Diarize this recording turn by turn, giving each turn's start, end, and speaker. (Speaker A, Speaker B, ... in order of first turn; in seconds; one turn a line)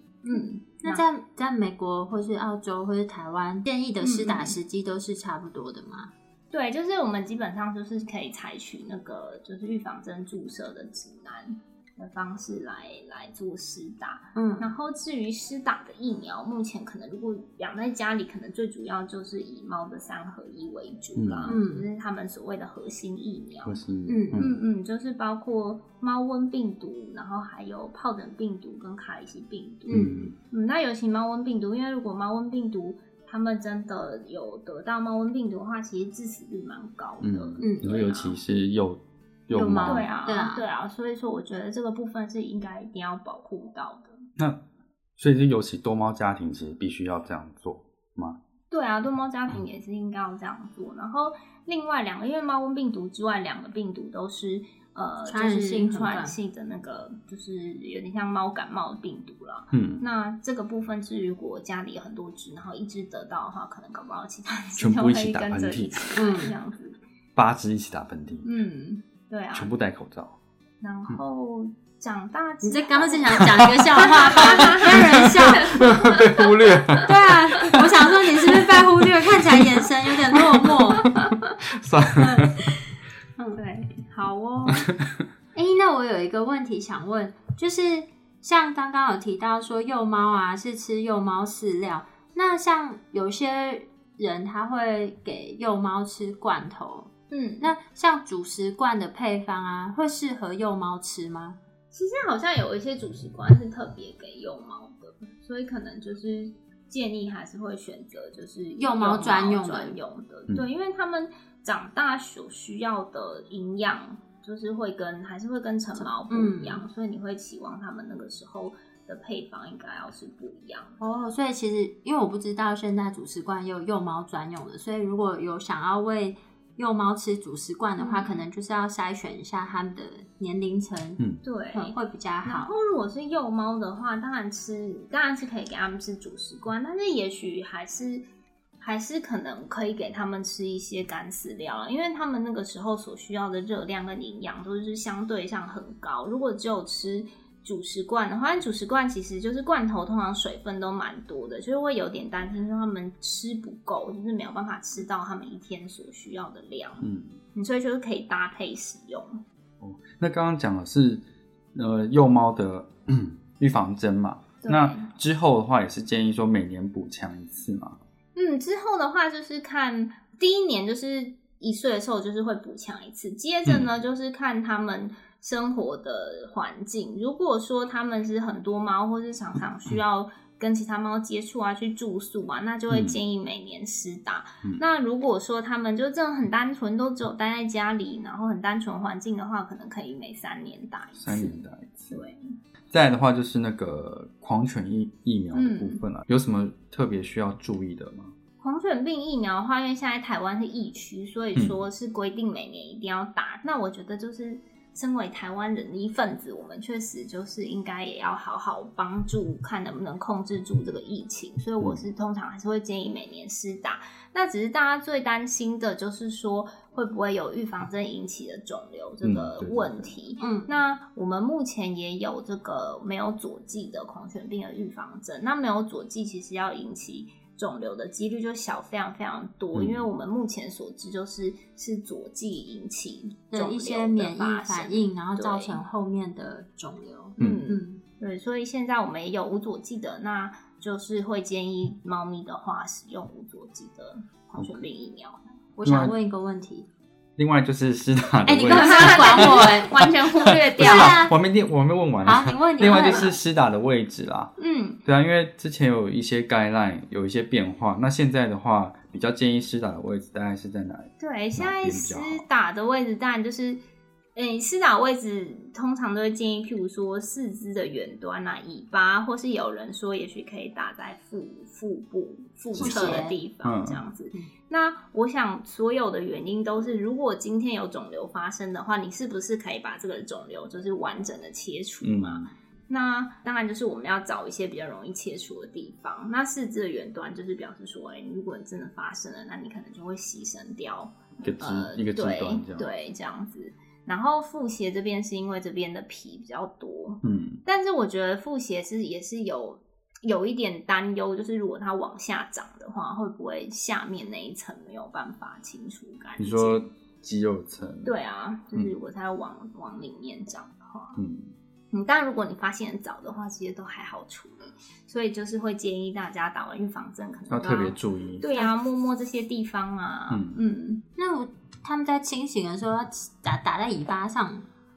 Speaker A: 0.2-1.1
Speaker B: 0.3-6.1
Speaker A: 4.0-4.6
Speaker A: 6.5-23.8
Speaker B: 14.3-14.7
Speaker C: 21.2-21.6
Speaker B: 21.5-21.9
Speaker C: 23.6-24.6
Speaker B: 24.1-24.5
Speaker A: 24.4-38.4
Speaker B: 29.9-30.3
Speaker C: 29.9-30.4
Speaker C: 37.2-40.1
Speaker B: 37.6-37.9
Speaker B: 39.5-40.7
Speaker A: 39.9-44.2
Speaker C: 45.2-48.4
Speaker A: 48.7-67.0
Speaker B: 55.3-56.4
Speaker C: 59.7-60.0
Speaker C: 64.8-66.2
Speaker B: 66.2-66.5
Speaker C: 67.4-68.5
Speaker A: 68.5-69.7
Speaker C: 69.5-70.4
Speaker A: 70.8-77.1
Speaker B: 72.6-75.9
Speaker C: 74.4-78.0
Speaker B: 77.0-81.1
Speaker A: 81.0-81.4
Speaker C: 81.7-82.6
Speaker A: 83.5-84.9
Speaker C: 84.7-85.2
Speaker B: 85.5-101.6
Speaker A: 97.3-97.7
Speaker A: 101.9-121.0
Speaker B: 108.8-110.0
Speaker B: 116.0-116.9
Speaker B: 121.0-131.2
Speaker A: 128.0-128.4
Speaker A: 131.4-138.2
Speaker B: 131.7-132.7
Speaker A: 138.8-159.4
Speaker C: 157.0-157.4
Speaker C: 159.8-161.2
Speaker C: 161.7-168.0
Speaker A: 164.6-165.1
Speaker A: 168.3-191.6
Speaker C: 182.9-183.2
Speaker C: 191.2-192.2
Speaker A: 192.1-192.5
Speaker C: 192.9-198.3
Speaker A: 195.5-196.0
Speaker A: 198.6-235.8
Speaker C: 201.6-201.8
Speaker C: 219.2-220.1
Speaker B: 220.4-220.7
Speaker C: 229.8-230.1
Speaker B: 233.5-238.0
Speaker C: 237.4-237.7
Speaker A: 237.4-245.4
Speaker B: 245.8-246.9
Speaker C: 245.8-246.1
Speaker C: 247.4-254.5
Speaker B: 248.5-249.9
Speaker A: 248.7-251.2
Speaker B: 250.8-251.3
Speaker B: 252.2-253.3
Speaker A: 254.6-255.0
Speaker C: 255.1-262.4
Speaker A: 261.2-263.8
Speaker A: 264.4-306.9
Speaker C: 272.7-274.0
Speaker B: 272.8-273.4
Speaker C: 282.0-282.5
Speaker C: 291.4-292.9
Speaker C: 297.2-297.6
Speaker C: 306.4-308.1
Speaker A: 308.1-311.2
Speaker C: 311.2-311.5
Speaker A: 311.9-321.0
Speaker C: 317.5-318.4
Speaker C: 320.3-320.6
Speaker B: 321.2-324.7